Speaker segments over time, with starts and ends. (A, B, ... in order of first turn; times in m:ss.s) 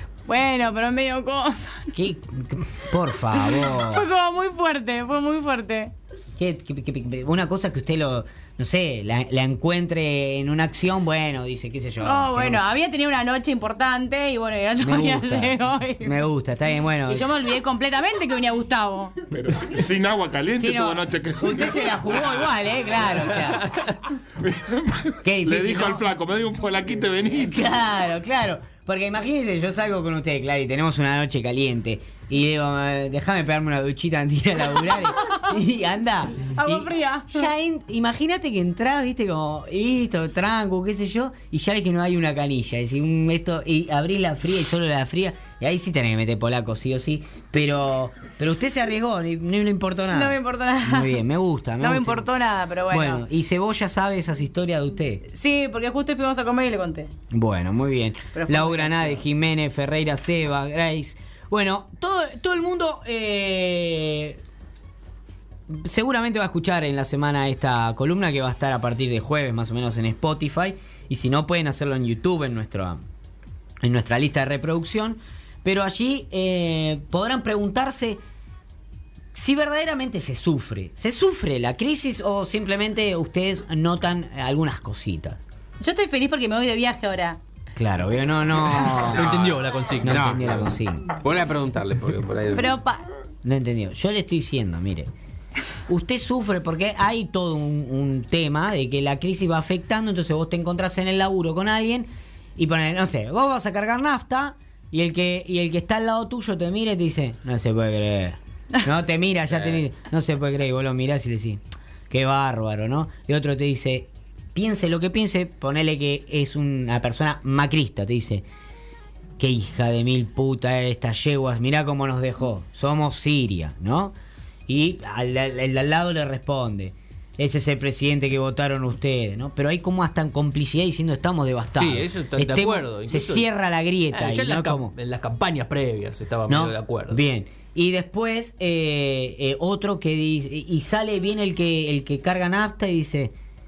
0:00.3-0:01.9 A
0:01.9-0:04.0 B
0:03.3-0:05.9 A
0:06.4-0:12.6 B
0:12.0-0:16.2 A
0:14.8-0:17.3 B
0:17.0-0:19.1 A
0:19.3-0:22.6 C
0:20.6-0:23.7 B
0:23.5-0:23.8 D
0:24.4-0:27.6 C
0:25.2-0:26.0 B
0:27.3-0:52.3 B
0:35.2-0:35.5 A
0:36.5-0:37.5 A
0:50.1-0:51.2 A
0:51.8-0:53.2 A
0:52.9-0:55.2 B
0:55.3-0:57.1 A
0:57.3-1:04.4 B
0:58.3-0:59.2 A
1:05.7-1:13.0 B
1:13.8-1:18.2 B
1:19.3-1:25.4 B
1:25.8-1:27.4 A
1:27.8-1:29.5 B
1:28.9-1:32.8 E
1:29.0-1:30.4 D
1:30.0-1:31.1 B
1:32.5-1:33.0 A
1:33.4-1:35.1 B
1:35.9-1:58.4 B
1:59.4-2:04.2 B
2:04.7-2:14.9 B
2:11.8-2:13.4 D
2:14.1-2:17.2 D
2:16.5-2:23.3 B